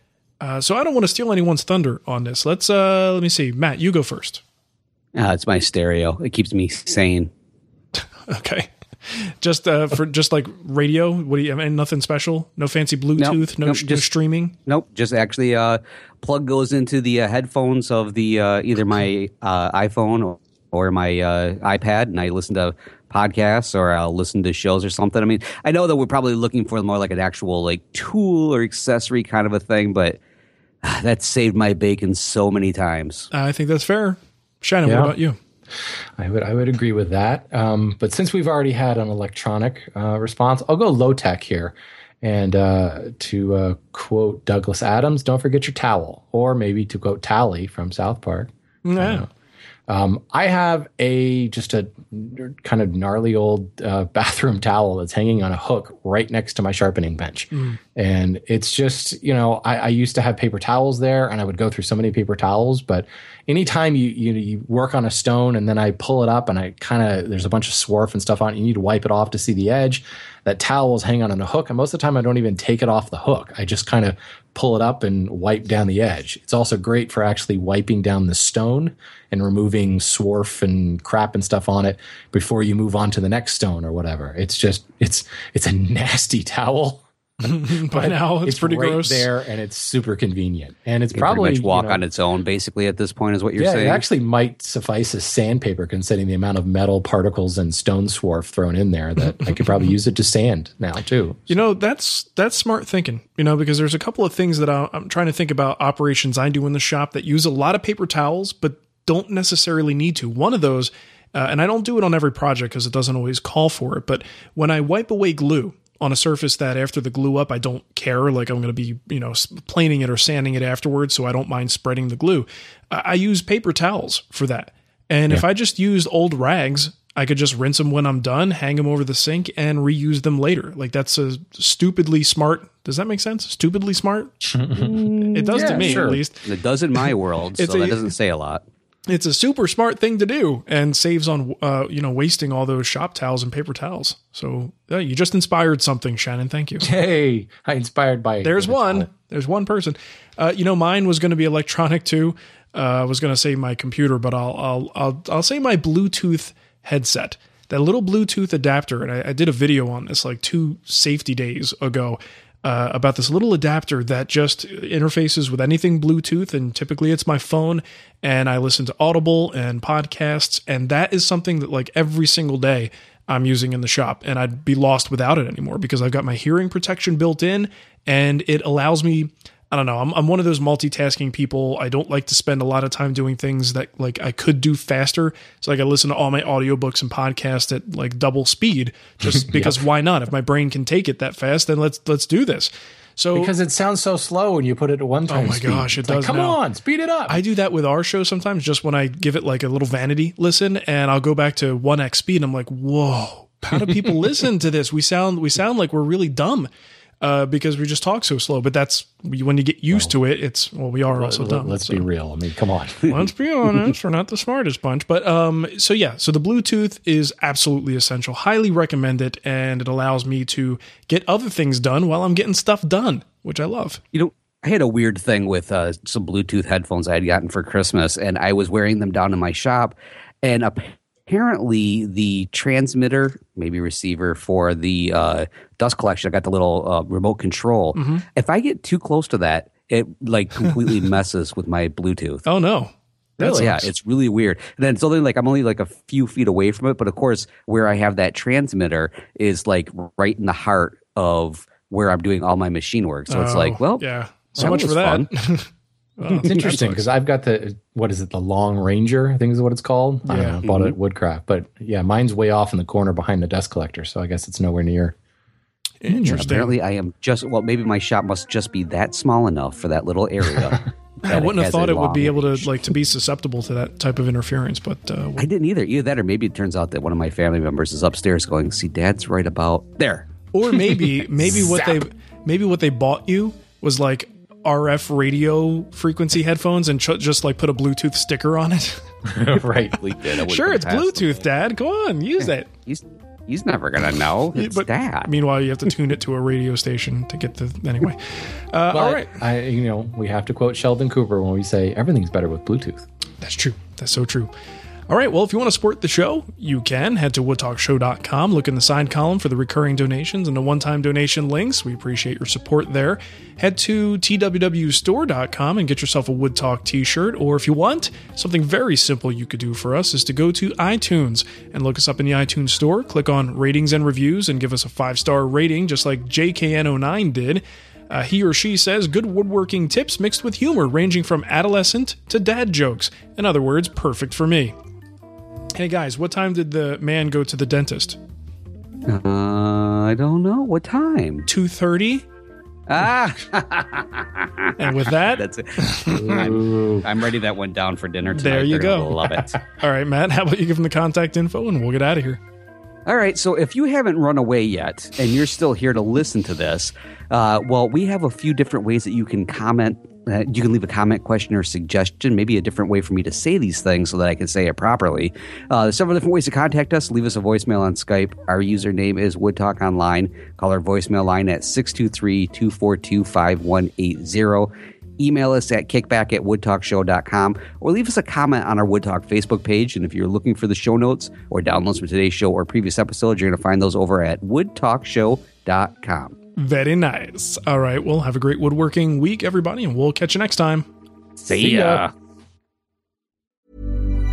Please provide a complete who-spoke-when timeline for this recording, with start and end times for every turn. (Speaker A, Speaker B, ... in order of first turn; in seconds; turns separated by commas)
Speaker A: 0.4-4.4, Speaker B: 5.2-7.3, Speaker A: 8.0-14.6, Speaker B: 13.2-14.1, Speaker B: 14.7-30.2, Speaker B: 30.8-33.3, Speaker A: 33.3-35.4, Speaker C: 34.9-35.1, Speaker C: 36.2-49.3, Speaker A: 48.9-49.3, Speaker C: 49.9-87.0, Speaker A: 57.5-57.8, Speaker A: 87.4-89.3, Speaker C: 87.7-92.0, Speaker B: 91.1-94.0, Speaker C: 93.6-101.5, Speaker A: 101.5-134.6, Speaker C: 134.5-136.2, Speaker B: 134.9-138.6, Speaker A: 135.2-136.5, Speaker A: 137.6-138.1, Speaker A: 139.1-146.9, Speaker C: 146.8-149.1, Speaker A: 148.4-193.5, Speaker C: 189.3-189.8, Speaker C: 193.3-197.4, Speaker A: 195.3-196.6, Speaker A: 197.3-206.7, Speaker A: 207.2-212.1, Speaker C: 211.1-213.1, Speaker A: 213.1-224.0, Speaker B: 224.1-242.4, Speaker A: 238.0-238.2, Speaker A: 242.5-243.9, Speaker C: 243.4-243.8, Speaker B: 243.6-255.3, Speaker A: 253.3-257.1, Speaker C: 256.3-265.2, Speaker B: 256.4-256.9, Speaker A: 260.3-260.6, Speaker B: 260.6-260.9, Speaker A: 266.0-266.7, Speaker B: 266.2-272.9, Speaker A: 271.3-275.5, Speaker B: 275.4-280.4, Speaker A: 280.5-289.1, Speaker B: 280.9-282.0, Speaker C: 289.3-290.0, Speaker B: 289.9-291.5, Speaker A: 290.4-292.7, Speaker B: 292.4-295.3, Speaker A: 294.6-299.3, Speaker C: 298.9-303.1, Speaker A: 303.4-304.5, Speaker A: 305.1-334.8, Speaker A: 335.8-338.2, Speaker B: 339.1-341.5, Speaker A: 341.5-342.3, Speaker B: 342.9-349.5, Speaker A: 344.8-346.4, Speaker C: 346.1-347.1, Speaker A: 348.4-352.4, Speaker B: 353.1-386.4, Speaker A: 386.6-390.9, Speaker B: 391.4-392.1, Speaker C: 391.6-392.0